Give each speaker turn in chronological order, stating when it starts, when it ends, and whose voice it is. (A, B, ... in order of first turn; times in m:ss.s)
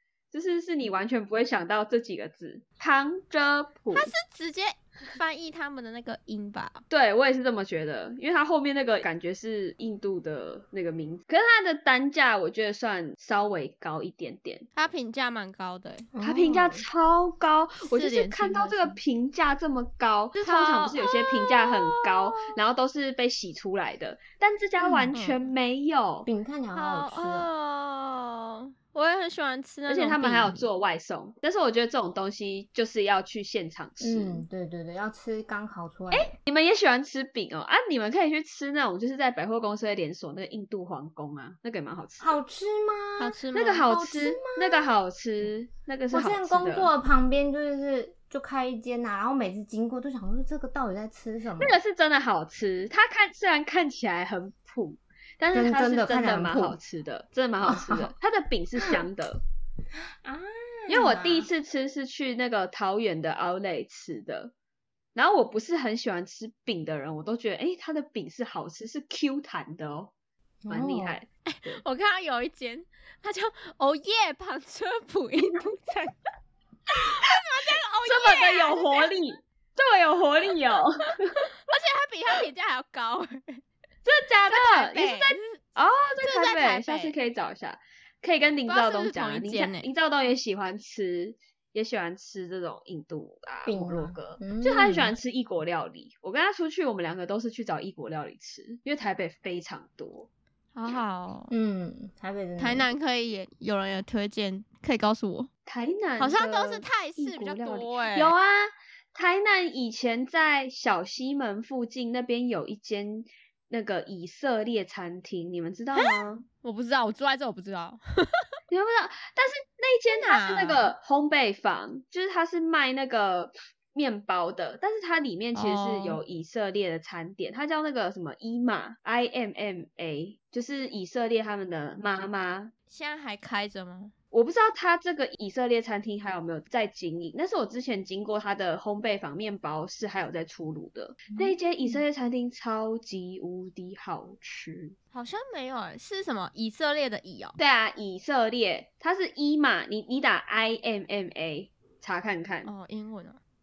0:00.3-0:04.1 A
0:03.9-0:06.8 B
0:06.9-0:14.7 A
0:14.8-0:16.1 B
0:16.1-0:16.8 C
0:16.2-0:26.3 A
0:17.8-0:19.0 B
0:20.4-0:22.5 B
0:24.8-0:25.4 C
0:26.3-0:27.5 C
0:26.7-0:30.6 B
0:29.9-0:34.4 A
0:34.0-0:36.3 C
0:36.1-0:42.4 A
0:42.2-0:45.0 C
0:43.2-0:43.8 B
0:43.5-0:46.9 A
0:46.1-0:51.8 C
0:51.6-0:59.4 A
0:55.5-0:56.8 C
0:57.7-0:58.1 C
1:00.2-1:01.5 C
1:00.9-1:04.5 A
1:05.2-1:10.1 A
1:10.6-1:11.2 C
1:10.7-1:11.8 A
1:11.5-1:16.2 B
1:16.9-1:19.1 B
1:18.1-1:21.5 A
1:21.7-1:23.6 B
1:24.0-1:40.3 A
1:24.4-1:25.6 B
1:26.2-1:27.1 B
1:28.7-1:29.9 B
1:33.7-1:35.2 C
1:40.8-1:41.5 B
1:41.5-1:42.9 C
1:42.6-1:45.5 B
1:45.7-1:56.4 A
1:46.2-1:48.3 B
1:55.9-1:58.5 B
1:58.7-2:12.7 A
2:00.1-2:00.9 B
2:05.6-2:06.2 B
2:12.9-2:14.1 B
2:14.3-2:25.0 A
2:25.1-2:27.6 B
2:27.6-2:32.7 A
2:32.6-2:33.4 B